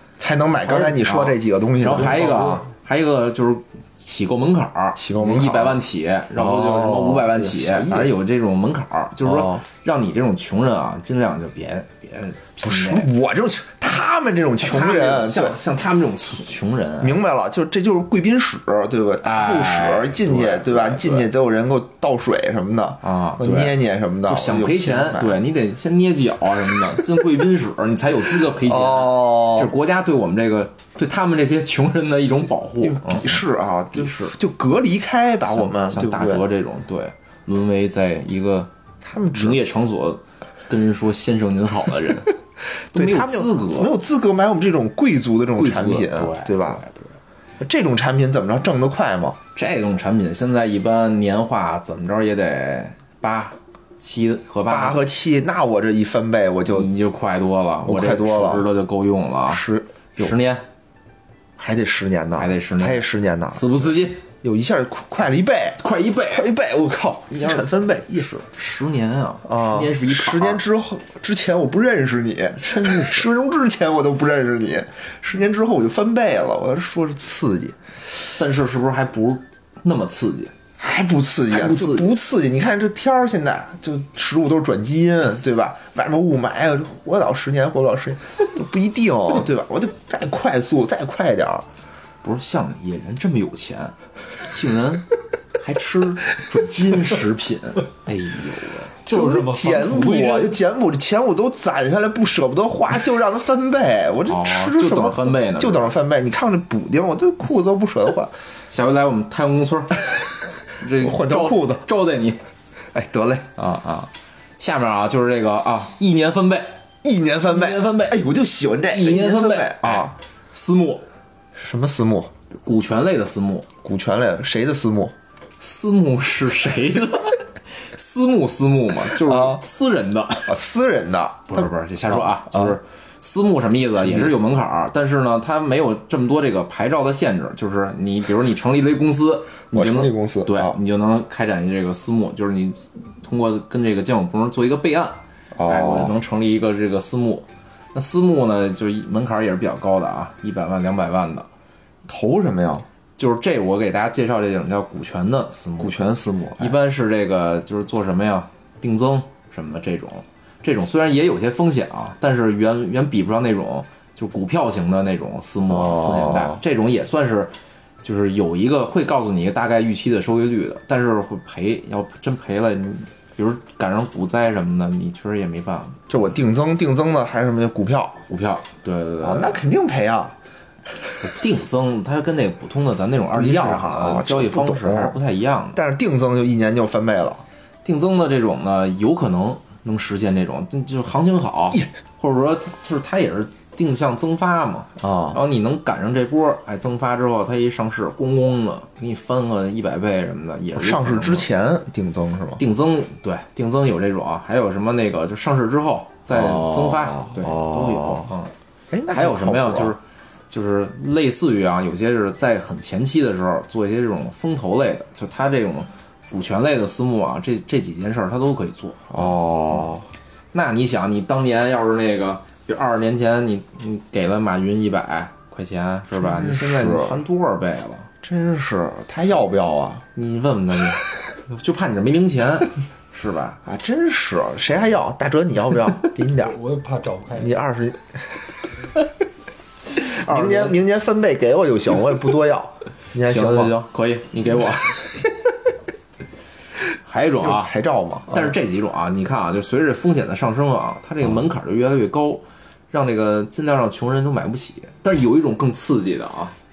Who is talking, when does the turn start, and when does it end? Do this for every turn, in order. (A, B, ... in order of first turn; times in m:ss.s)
0:00.2-0:02.6 A
0:00.6-0:13.1 B
0:05.0-0:05.8 A
0:06.4-0:08.1 A
0:09.2-0:09.6 A
0:12.6-0:15.6 A
0:14.6-0:17.2 B
0:17.0-0:25.4 A
0:19.2-0:21.3 B
0:23.0-0:34.4 B
0:28.6-0:29.7 A
0:32.8-0:36.4 A
0:35.5-0:38.7 B
0:39.0-0:39.6 A
0:39.3-0:42.4 B
0:42.9-0:43.9 B
0:42.9-0:46.8 A
0:45.6-0:47.2 B
0:47.6-0:49.4 A
0:49.6-0:55.0 B
0:54.7-0:56.9 A
0:56.7-0:59.6 B
0:57.8-0:58.7 A
0:59.5-1:00.3 A
1:00.2-1:00.6 B
1:01.6-1:03.8 A
1:02.4-1:04.2 B
1:04.4-1:08.3 A
1:05.8-1:06.5 B
1:07.3-1:07.6 B
1:08.2-1:10.6 B
1:09.4-1:17.8 A
1:12.6-1:13.3 B
1:18.4-1:20.5 B
1:20.8-1:31.7 A
1:21.5-1:22.1 B
1:32.2-1:35.1 B
1:35.6-1:38.9 B
1:39.0-1:40.6 C
1:39.1-1:48.3 A
1:44.3-1:46.0 B
1:48.7-1:50.0 B
1:50.7-1:52.4 B
1:51.0-1:51.9 A
1:52.9-1:53.5 A
1:53.6-1:56.8 B
1:57.0-2:00.1 A
1:57.5-1:58.2 B
1:58.9-2:01.0 B
2:01.6-2:02.3 A
2:02.5-2:03.7 B
2:03.8-2:05.1 A
2:05.6-2:07.4 B
2:07.9-2:10.6 B
2:09.2-2:09.6 A
2:10.5-2:12.8 A
2:11.5-2:31.5 B
2:14.0-2:14.3 A
2:19.7-2:20.8 A
2:25.6-2:26.2 A
2:32.1-2:32.9 A
2:33.2-2:36.0 B
2:35.8-2:36.8 A
2:36.6-2:56.0 B
2:45.7-2:46.6 A
2:56.1-2:58.2 A
2:58.3-2:59.6 B
2:59.2-3:00.4 A
3:01.2-3:05.8 B
3:03.3-3:05.2 A
3:05.7-3:07.4 A
3:07.8-3:21.5 B
3:15.0-3:15.4 A
3:20.8-3:22.6 A
3:22.6-3:28.5 B
3:26.3-3:28.3 A
3:28.9-3:29.9 A
3:29.1-3:39.3 B
3:39.1-3:40.1 A
3:40.5-3:48.1 B
3:46.2-3:47.2 A
3:48.2-3:50.0 A
3:50.2-3:53.6 B
3:53.6-3:56.6 A
3:56.4-3:57.6 C
3:57.4-3:58.2 A
4:00.0-4:00.8 B
4:00.0-4:03.7 A
4:03.2-4:05.1 B
4:07.0-4:07.7 B
4:07.4-4:08.5 A
4:08.3-4:16.5 B